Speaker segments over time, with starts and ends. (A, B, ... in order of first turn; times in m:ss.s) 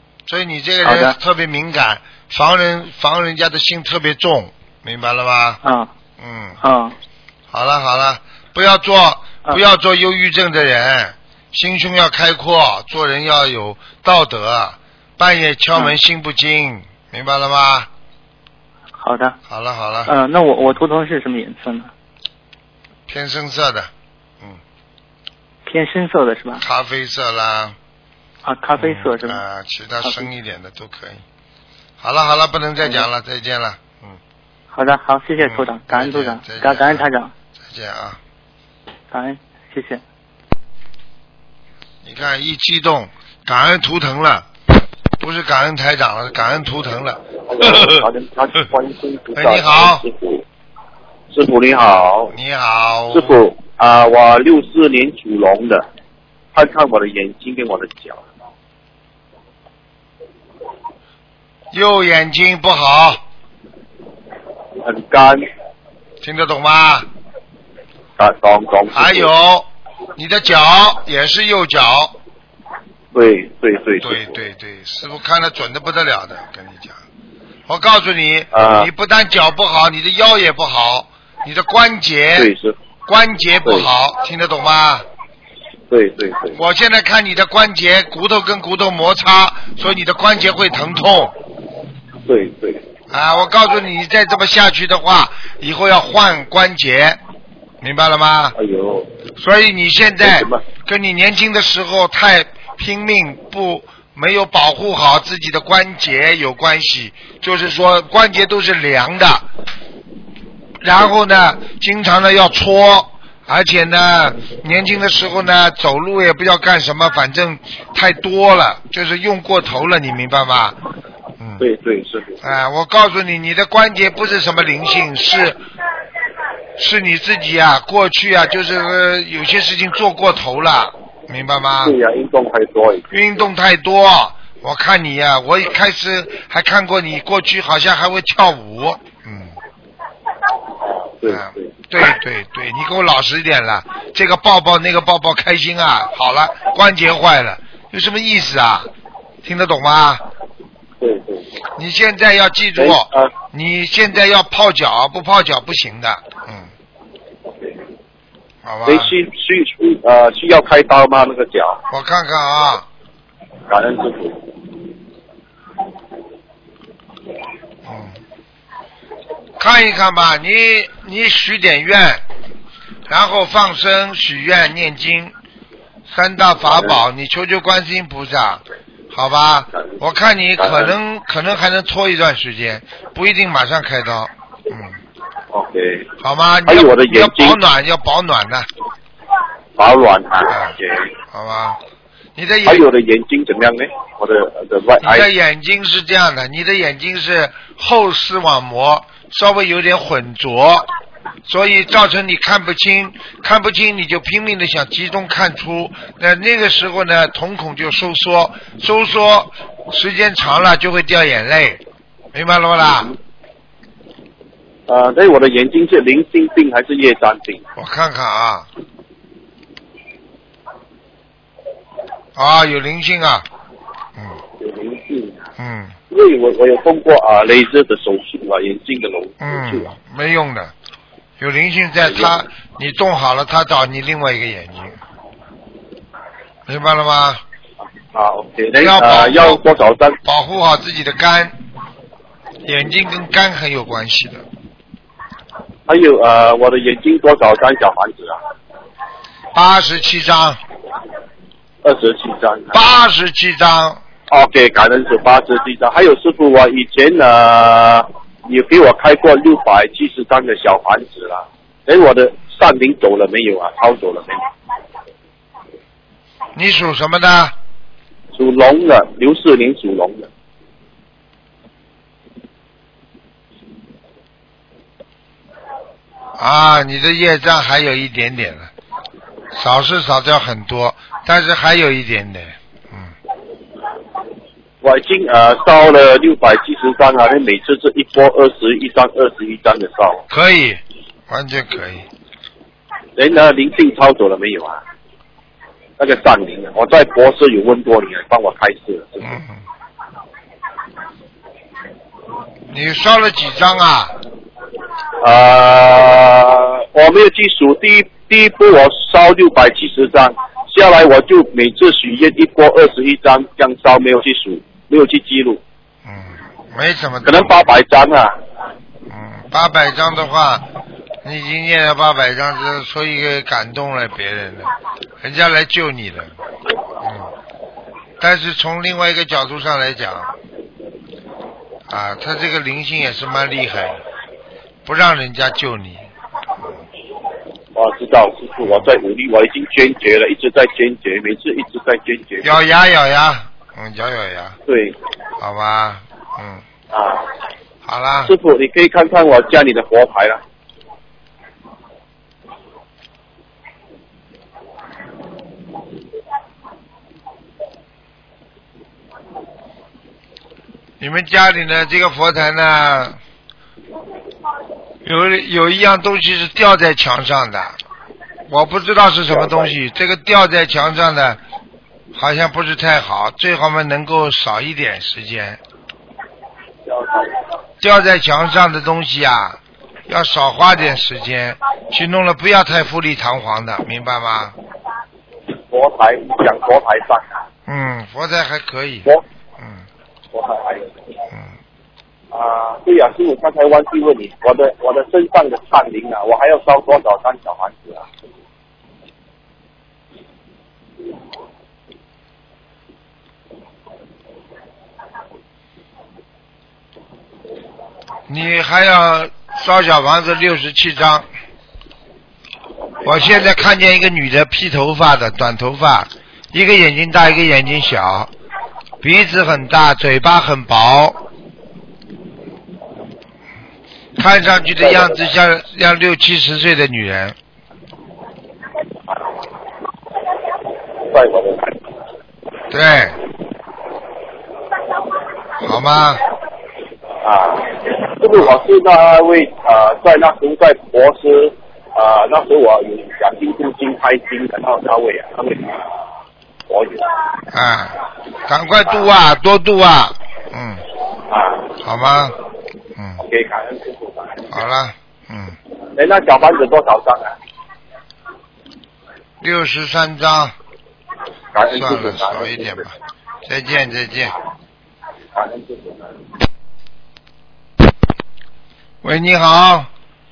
0:00.3-0:05.6 A
0:00.8-0:01.2 B
0:05.6-0:05.9 B
0:06.2-0:06.6 A
0:06.6-0:06.9 B
0:07.5-0:17.9 A
0:19.0-0:19.4 B
0:19.5-0:20.1 A
0:20.1-0:21.9 B
0:23.1-0:23.9 A
0:25.6-0:26.6 B
0:26.6-0:27.8 A
0:28.4-0:29.4 B
0:28.8-0:31.2 A
0:30.0-0:30.3 B
0:32.0-0:34.2 A
0:34.7-0:37.3 B
0:35.4-0:37.1 A
0:37.6-0:38.2 A
0:39.1-0:40.0 B
0:42.0-0:44.5 A
0:45.2-0:48.0 A
0:47.5-0:50.4 C
0:49.3-0:50.0 A
0:51.3-0:52.3 C
0:52.3-0:53.4 A
0:53.1-0:55.8 C
0:56.5-0:58.2 C
1:01.7-1:03.2 A
1:04.8-1:05.4 C
1:06.2-1:07.1 A
1:08.2-1:09.3 C
1:08.9-1:12.1 A
1:13.1-1:14.3 C
1:14.0-1:17.0 A
1:17.7-1:22.5 A
1:18.5-1:18.9 C
1:22.3-1:22.8 C
1:23.0-1:25.0 A
1:25.9-1:26.6 C
1:26.5-1:31.3 A
1:32.2-1:32.8 C
1:33.1-1:37.2 A
1:37.8-1:38.6 A
1:38.5-1:39.1 C
1:39.4-1:49.4 A
1:40.2-1:40.6 C
1:50.8-2:00.8 A
2:01.4-2:01.6 A
2:01.6-2:02.4 C
2:02.4-2:05.6 A
2:06.8-2:12.0 A
2:11.8-2:13.1 C
2:13.1-2:19.6 A
2:20.8-2:21.7 C
2:21.3-2:28.9 A
2:29.4-2:30.2 A
2:31.0-2:31.6 C
2:31.8-2:36.7 A
2:32.8-2:33.3 C
2:38.6-2:39.1 A
2:38.8-2:41.8 C
2:41.9-2:42.9 A
2:43.7-2:44.4 C
2:47.8-2:48.2 A
2:49.6-2:52.2 A
2:53.1-2:55.3 A
2:56.1-3:05.0 A
3:00.6-3:00.9 C
3:05.5-3:06.1 C
3:06.2-3:08.7 A
3:06.7-3:07.6 C
3:09.8-3:11.1 C
3:10.5-3:10.8 A
3:11.3-3:11.8 A
3:12.4-3:12.9 A
3:12.6-3:15.3 C
3:15.0-3:20.9 A
3:21.5-3:31.8 A
3:32.3-3:33.1 A
3:34.9-3:37.6 C
3:37.8-3:38.7 A
3:42.4-3:43.4 A
3:44.6-3:45.4 C
3:45.6-3:46.0 A
3:46.1-3:49.9 C
3:49.4-3:50.7 A
3:51.4-3:55.0 A
3:56.7-3:57.4 A
3:58.1-4:00.2 C
3:58.7-3:59.6 A
4:00.2-4:01.5 A
4:02.6-4:04.4 A
4:05.9-4:08.4 C
4:09.5-4:10.6 A
4:11.8-4:12.8 C
4:12.7-4:14.0 A
4:14.3-4:24.4 C
4:26.5-4:27.5 A
4:28.3-4:30.3 C
4:36.4-4:38.7 A
4:39.5-4:43.1 A
4:44.8-4:50.2 C
4:50.3-4:52.0 A
4:53.2-4:54.8 C
4:56.0-4:59.3 C
4:59.2-4:59.6 A
5:02.7-5:04.1 A
5:05.2-5:15.6 C
5:16.0-5:17.6 A
5:17.2-5:18.3 C
5:19.1-5:20.6 A
5:21.2-5:26.4 A
5:27.0-5:27.3 A
5:28.2-5:30.3 A
5:31.9-5:34.0 A
5:34.8-5:36.0 A
5:37.7-5:42.5 C
5:42.4-5:44.6 A
5:44.7-5:45.0 C
5:45.4-5:46.6 A
5:46.9-5:47.2 C
5:47.8-5:48.3 A
5:48.2-5:50.4 C
6:01.0-6:03.2 A
6:05.0-6:07.8 A
6:08.5-6:11.4 A
6:09.3-6:09.7 C
6:12.1-6:15.6 A
6:16.9-6:17.3 C
6:17.8-6:24.5 A
6:25.7-6:27.3 C
6:27.7-6:29.8 A
6:30.3-6:31.0 C
6:32.3-6:38.0 C
6:48.3-6:51.3 A
6:53.0-6:58.3 A
6:59.0-7:01.2 A
7:04.2-7:07.4 A
7:11.0-7:11.7 C
7:12.7-7:13.2 A
7:15.6-7:16.2 A
7:17.2-7:25.8 C
7:26.7-7:27.1 C
7:27.5-7:30.8 A
7:31.3-7:31.7 C
7:31.8-7:32.4 A
7:33.0-7:33.2 A
7:33.2-7:34.5 C
7:34.5-7:35.6 A
7:36.0-7:37.3 C
7:39.4-7:40.5 A
7:41.5-7:42.8 C
7:41.7-7:42.9 A
7:43.4-7:44.3 A
7:45.3-7:46.1 C
7:49.0-7:49.9 A